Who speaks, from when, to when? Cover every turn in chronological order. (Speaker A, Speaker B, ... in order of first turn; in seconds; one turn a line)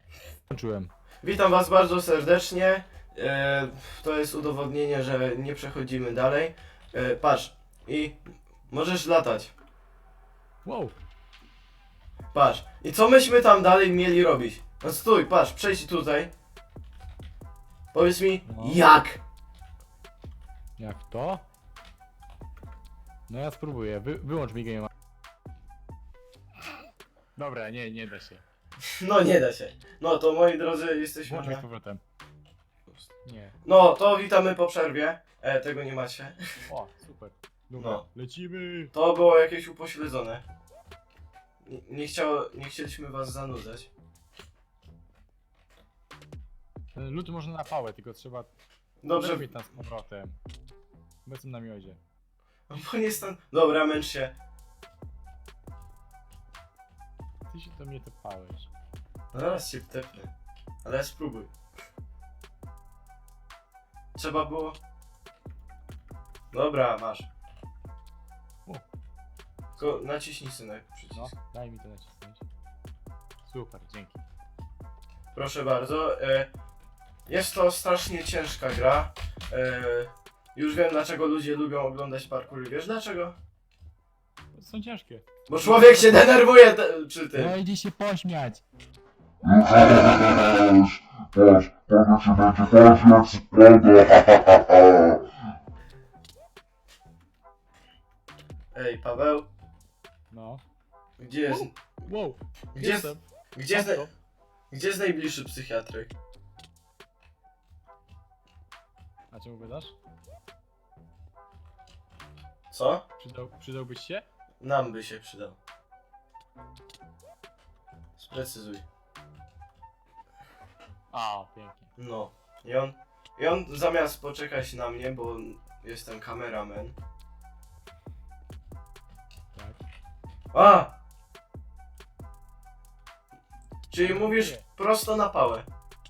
Speaker A: 0.5-0.9
Speaker B: 1.2-9.5
Speaker A: 10.6-11.0
Speaker B: 12.3-16.3
Speaker B: 17.9-19.2
Speaker A: 18.5-18.8
Speaker A: 20.8-21.4
Speaker A: 23.3-24.9
Speaker A: 27.4-28.4
Speaker B: 29.0-31.6
Speaker A: 31.2-32.0
Speaker A: 33.2-33.6
Speaker B: 33.6-36.6
Speaker A: 36.7-38.9
Speaker B: 37.8-38.0
Speaker B: 38.9-40.4
Speaker B: 41.6-43.9
Speaker A: 46.9-48.5
Speaker B: 49.0-49.5
Speaker A: 49.1-50.4
Speaker A: 51.2-52.0
Speaker B: 52.7-54.3
Speaker A: 57.5-58.7
Speaker B: 59.3-60.3
Speaker B: 60.8-61.5
Speaker B: 64.1-64.8
Speaker B: 66.5-67.3
Speaker B: 69.8-71.3
Speaker A: 71.1-72.4
Speaker A: 73.4-74.2
Speaker B: 75.3-76.5
Speaker B: 77.3-83.3
Speaker A: 84.5-86.2
Speaker B: 85.5-87.5
Speaker A: 87.3-88.6
Speaker C: 89.5-95.2
Speaker B: 98.7-99.5
Speaker A: 100.3-100.6
Speaker B: 101.2-101.8
Speaker A: 101.5-104.1
Speaker B: 102.7-104.1
Speaker B: 104.7-106.1
Speaker A: 109.3-109.9
Speaker B: 112.7-113.0
Speaker A: 113.2-114.2
Speaker B: 114.6-115.6
Speaker B: 118.2-118.8
Speaker A: 121.1-121.9
Speaker B: 122.0-127.0
Speaker A: 129.5-129.8
Speaker B: 130.5-130.9
Speaker B: 133.9-135.7
Speaker A: 134.0-134.7